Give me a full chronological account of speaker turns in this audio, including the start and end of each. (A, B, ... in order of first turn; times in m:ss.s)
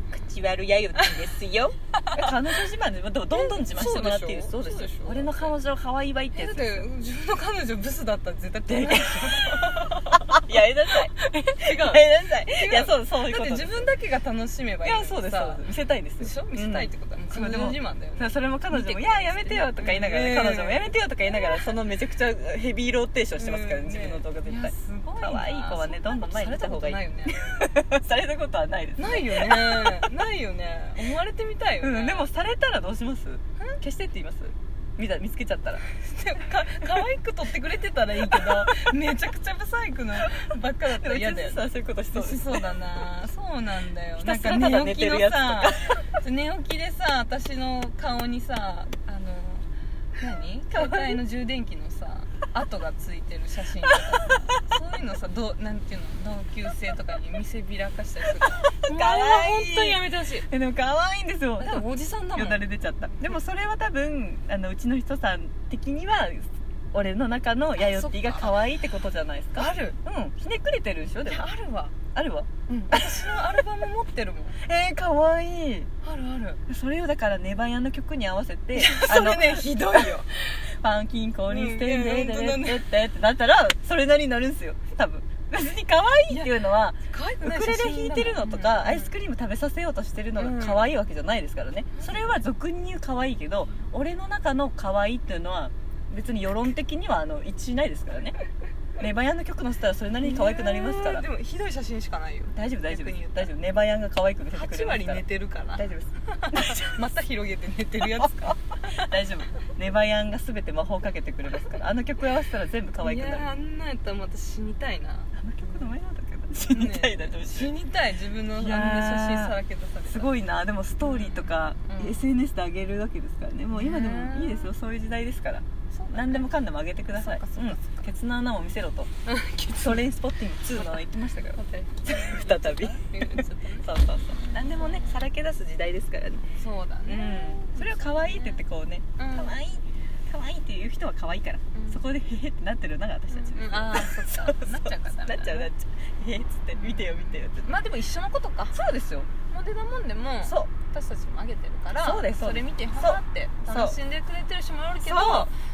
0:00.1-0:06.9 A
0:01.0-0:01.4 B
0:02.0-0:02.3 B
0:03.3-0:05.5 B
0:06.3-0:15.7 B
0:08.7-0:13.9 A
0:14.8-0:30.1 A
0:16.2-0:21.8 B
0:23.4-0:27.6 B
0:29.0-0:32.3 B
0:31.8-0:35.8 A
0:35.8-1:00.5 B
0:38.2-0:38.9 A
0:40.2-0:42.6 A
0:44.2-0:46.0 A
0:50.7-0:51.2 A
0:58.4-1:11.4 A
1:01.6-1:02.6 B
1:07.8-1:08.6 B
1:09.5-1:10.0 B
1:11.2-1:12.0 B
1:12.1-1:13.3 A
1:12.7-1:14.6 B
1:14.6-1:15.9 A
1:16.0-1:16.6 B
1:16.7-1:20.2 A
1:18.7-1:20.6 B
1:20.7-1:38.4 A
1:21.5-1:22.9 B
1:27.1-1:29.1 B
1:30.4-1:30.8 B
1:32.0-1:32.4 B
1:39.0-1:41.2 A
1:40.2-1:43.5 B
1:42.5-1:47.0 A
1:44.5-1:49.0 B
1:48.2-1:53.5 A
1:53.0-1:56.0 B
1:55.3-1:57.7 A
1:56.7-2:00.3 B
1:58.6-2:09.1 A
2:01.0-2:02.2 B
2:03.7-2:04.7 B
2:05.9-2:06.5 B
2:07.1-2:08.1 B
2:09.2-2:10.0 B
2:09.8-2:16.5 A
2:10.7-2:15.2 B
2:16.5-2:18.6 B
2:17.0-2:27.8 A
2:19.2-2:19.5 B
2:21.7-2:22.1 B
2:23.3-2:25.7 B
2:26.7-2:28.7 B
2:28.7-2:29.3 A
2:29.5-2:35.5 B
2:30.4-2:30.7 A
2:32.0-2:34.0 A
2:35.0-2:35.5 A